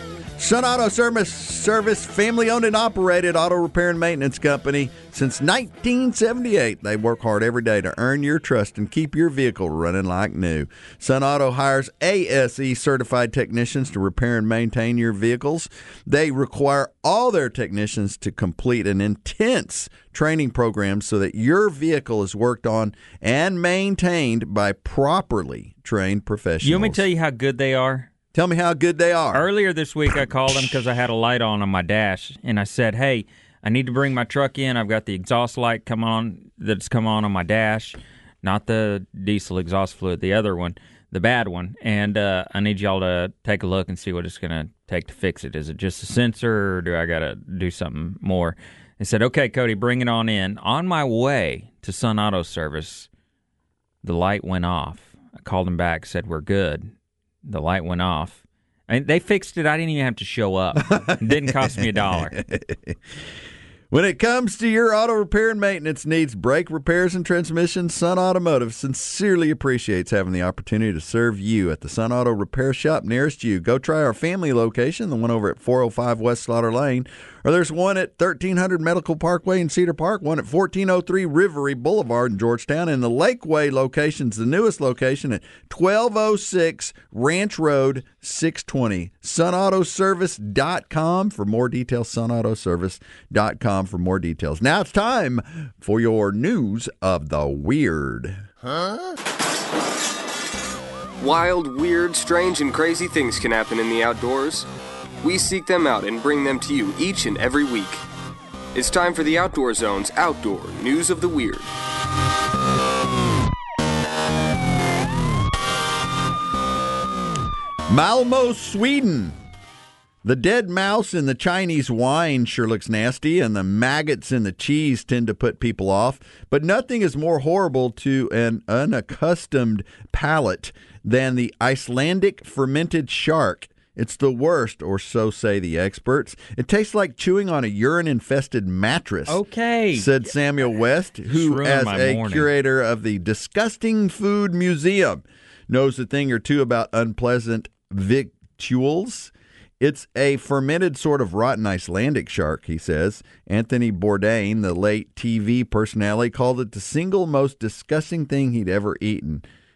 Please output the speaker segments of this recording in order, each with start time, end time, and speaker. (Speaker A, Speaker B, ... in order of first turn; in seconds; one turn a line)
Speaker A: 0.4-27.0
Speaker B: 26.6-28.1
Speaker A: 28.3-29.5
Speaker B: 29.3-53.1
Speaker B: 54.0-56.9
Speaker B: 57.4-62.4
Speaker A: 60.9-63.0
Speaker A: 63.9-98.4
Speaker C: 101.2-104.7
Speaker C: 105.2-108.0
Speaker C: 108.7-111.7
Speaker A: 117.9-119.4
Speaker A: 120.2-139.4
Speaker B: 139.3-140.3
Speaker A: 139.9-159.4
Speaker B: 141.3-142.5